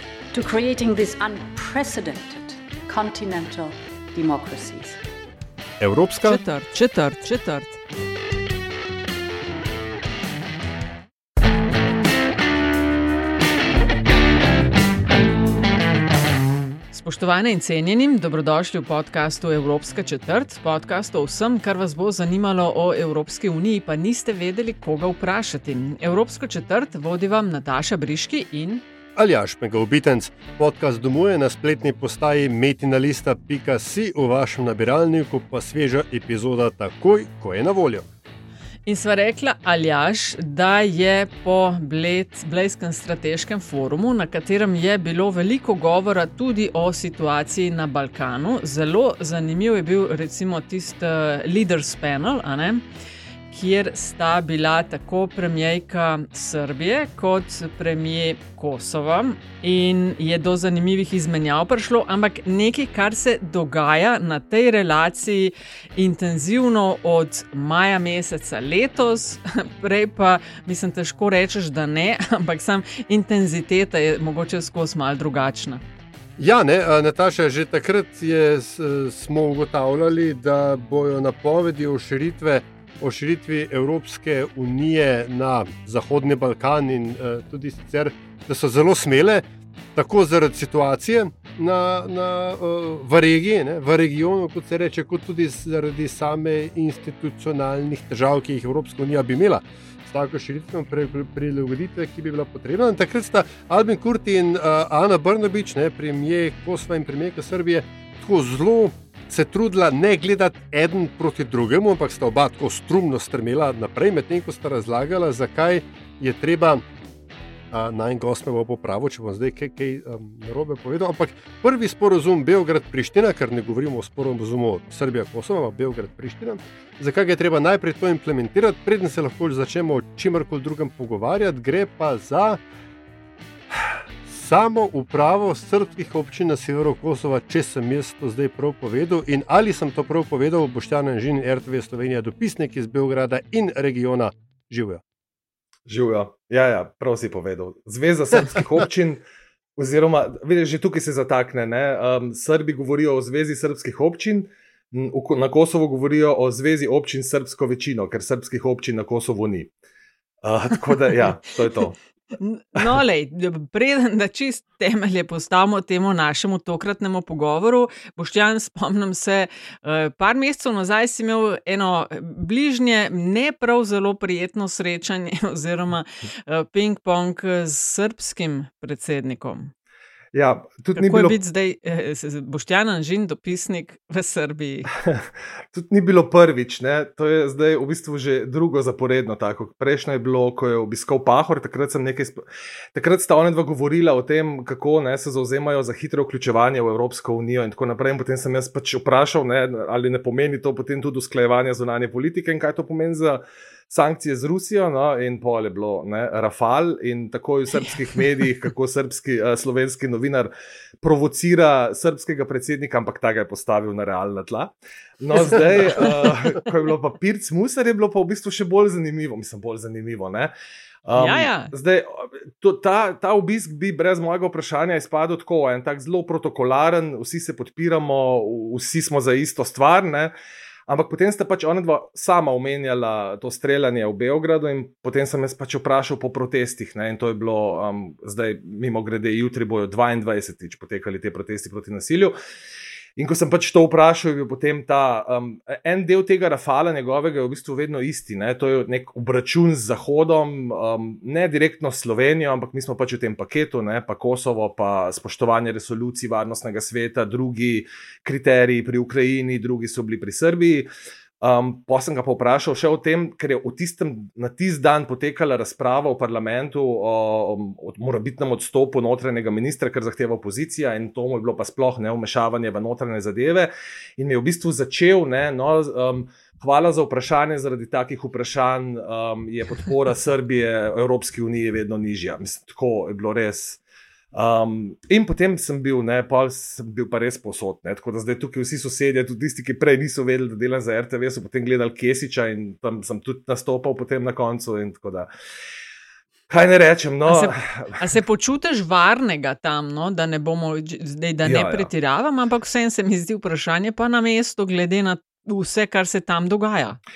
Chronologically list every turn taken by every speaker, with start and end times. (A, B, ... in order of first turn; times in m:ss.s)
0:00.3-0:05.0 A
0:05.8-0:06.4 B
0:06.2-0:07.8 C
0:16.9-0:28.8 C
0:29.2-0:38.1 B
0:38.9-0:52.8 C
0:53.5-1:15.8 C
1:16.4-1:56.9 B
1:57.7-2:12.6 B
2:14.3-2:25.0 B
2:25.9-2:29.2 D
2:29.8-2:39.7 D
2:40.4-2:42.0 D
2:42.4-2:59.7 C
3:00.3-3:01.4 D
3:01.0-3:04.9 C
3:05.0-3:40.5 D
3:35.8-3:36.1 C
3:41.0-3:50.3 D
3:41.2-3:41.7 C
3:50.9-4:02.4 D
4:03.2-4:20.9 D
4:21.4-4:43.8 D
4:44.3-4:55.3 D
4:56.5-4:58.0 D
4:57.3-5:07.0 C
5:01.4-5:01.9 D